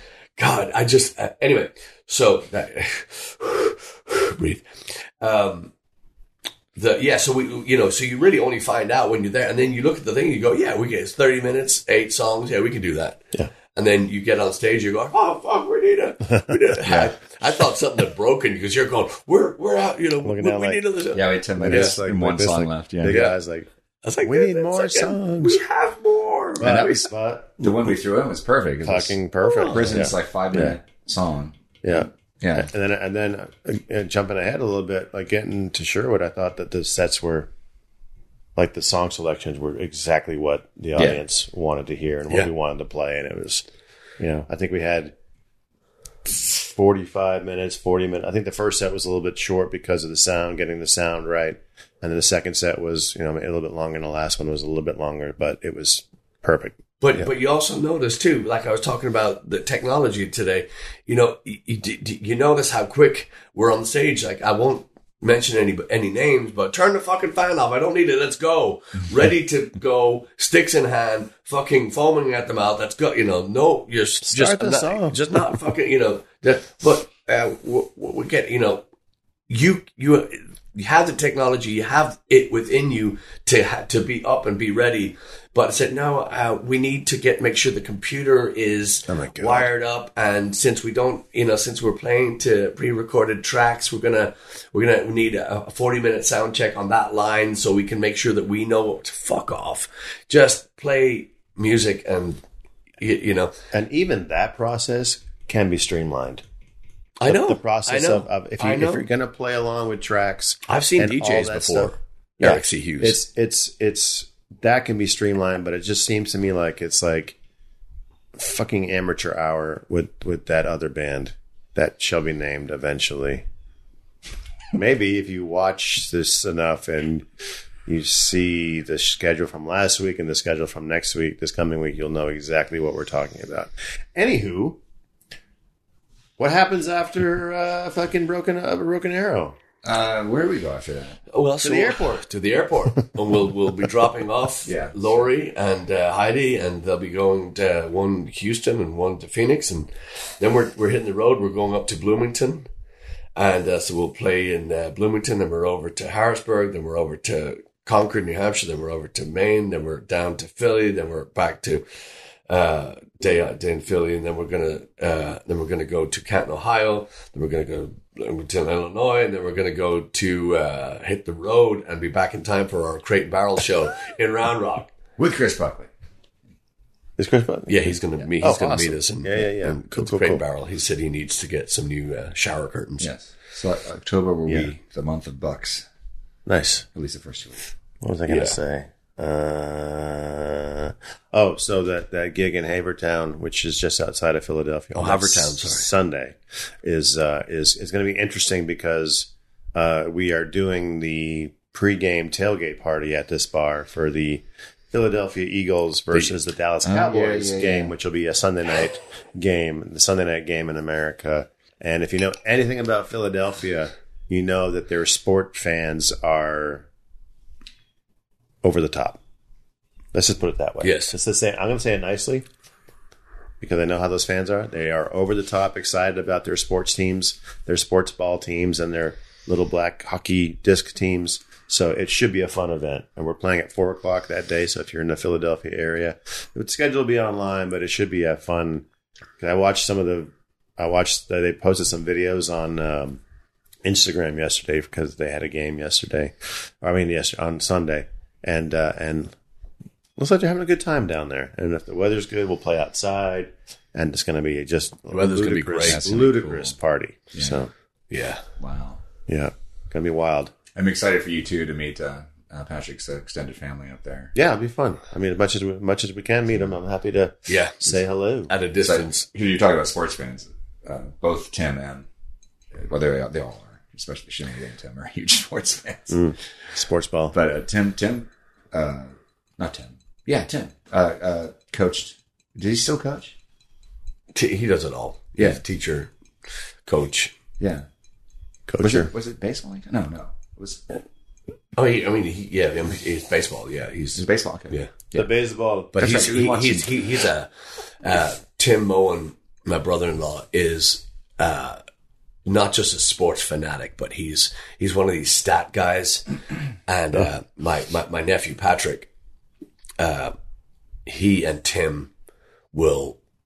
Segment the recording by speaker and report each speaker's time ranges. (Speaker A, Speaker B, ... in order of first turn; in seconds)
Speaker A: 0.4-5.7, 6.8-13.2, 13.7-22.0, 23.1-23.4, 24.0-27.1, 29.4-30.0, 57.0-78.8, 79.5-102.4, 103.0-103.5, 107.2-109.0, 110.7-113.2, 141.3-152.7, 153.4-161.8, 162.5-174.9, 177.7-183.1, 188.3-188.6, 194.9-195.9, 220.8-221.1, 255.1-256.1, 258.1-258.4, 267.5-267.9, 268.5-269.3, 284.3-286.1, 286.9-287.4, 291.8-294.9, 295.9-301.8, 302.5-306.3, 306.9-309.1, 310.0-310.4, 311.1-312.1, 312.7-313.2
Speaker B: 16.9-17.1, 21.1-23.2, 26.6-26.9, 27.6-29.2, 29.7-32.7, 139.8-141.2, 144.7-145.2, 175.2-175.9, 183.0-185.9, 186.9-187.6, 206.8-207.9, 255.8-256.8, 257.3-257.6, 258.6-259.0, 260.8-264.3, 268.8-272.1, 272.7-276.2, 277.3-283.4, 285.4-285.6, 287.6-287.9, 288.8-290.8, 294.2-295.3, 296.0-297.2
Speaker C: 20.2-20.8, 21.6-23.7, 24.2-25.6, 26.6-27.7, 28.8-30.8, 31.8-37.5, 38.6-43.6, 44.2-45.1, 46.3-57.3, 74.2-75.2, 89.1-89.7, 103.7-106.4, 107.3-117.4, 118.4-123.5, 124.7-127.3, 127.8-134.8, 136.4-139.6, 141.6-142.2, 177.2-180.4, 186.5-186.9, 188.0-216.9, 218.6-219.2, 220.1-222.4, 223.6-238.9, 239.4-243.2, 243.8-249.4, 250.2-257.7, 259.3-260.5, 264.3-268.5, 276.1-277.4, 288.7-289.1, 295.1-296.2